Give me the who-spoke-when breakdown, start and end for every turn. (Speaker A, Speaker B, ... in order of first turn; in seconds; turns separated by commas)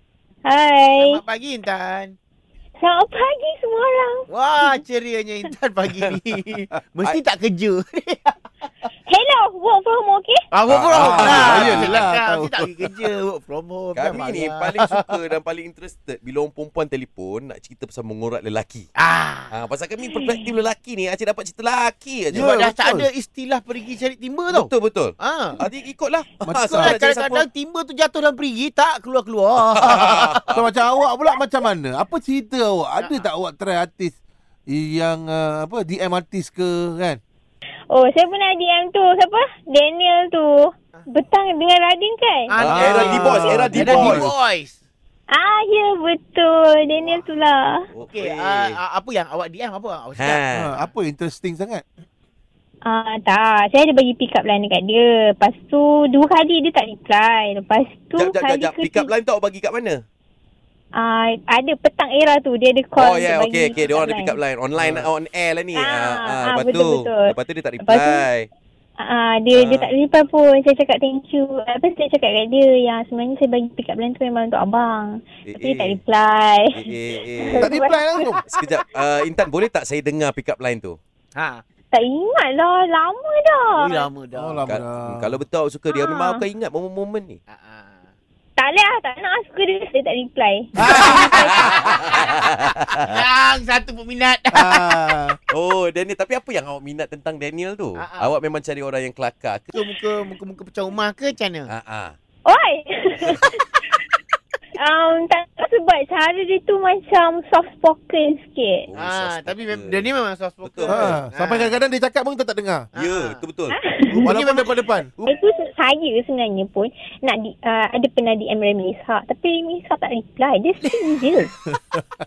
Speaker A: 0.5-1.2, Speaker B: 0.9-2.1, Speaker A: 2.8-4.8, Speaker B: 4.3-8.3, Speaker A: 9.1-10.4, Speaker B: 10.5-15.1, Speaker C: 10.7-12.0, Speaker D: 10.9-12.9, Speaker C: 13.9-18.9, Speaker B: 19.0-19.5, Speaker C: 19.5-22.5, Speaker D: 22.3-23.1, Speaker B: 22.3-25.6, Speaker C: 24.5-27.4, Speaker D: 26.4-27.0, Speaker B: 26.6-30.6, Speaker C: 29.8-30.6, Speaker D: 29.9-34.1, Speaker B: 33.0-33.2, Speaker D: 34.7-37.2, Speaker A: 37.9-42.5, Speaker B: 42.5-44.7, Speaker C: 42.6-44.3, Speaker D: 42.6-44.3, Speaker A: 45.3-47.8, Speaker C: 47.9-48.8, Speaker B: 48.1-50.9, Speaker C: 50.2-50.7, Speaker D: 50.5-51.8, Speaker A: 52.8-59.1, Speaker C: 58.2-60.0, Speaker A: 61.0-64.4, Speaker C: 63.0-68.5, Speaker D: 64.8-65.1, Speaker A: 65.7-67.3, Speaker A: 67.8-68.2, Speaker A: 69.0-76.7, Speaker C: 69.5-69.9, Speaker C: 75.5-76.0, Speaker C: 76.7-77.7, Speaker A: 77.3-78.4, Speaker D: 77.6-78.4, Speaker C: 78.5-81.0, Speaker B: 81.3-81.6, Speaker A: 81.9-84.1, Speaker B: 83.7-84.6, Speaker D: 84.3-85.3, Speaker C: 84.7-87.4, Speaker A: 85.9-86.4, Speaker B: 87.5-88.1, Speaker A: 88.6-92.4, Speaker D: 90.8-91.8, Speaker C: 91.0-93.0, Speaker B: 93.0-94.9, Speaker D: 94.5-95.4, Speaker C: 95.5-99.8, Speaker B: 98.0-98.3, Speaker B: 99.7-101.7, Speaker C: 101.7-102.1, Speaker A: 102.5-104.0, Speaker A: 104.8-108.9, Speaker C: 108.9-110.0, Speaker B: 109.0-111.8, Speaker C: 110.6-111.2, Speaker D: 110.9-112.9, Speaker B: 112.9-113.4, Speaker C: 113.0-113.8, Speaker A: 113.8-114.2, Speaker D: 114.1-115.1, Speaker B: 114.2-115.3, Speaker A: 115.2-121.5, Speaker D: 121.7-122.0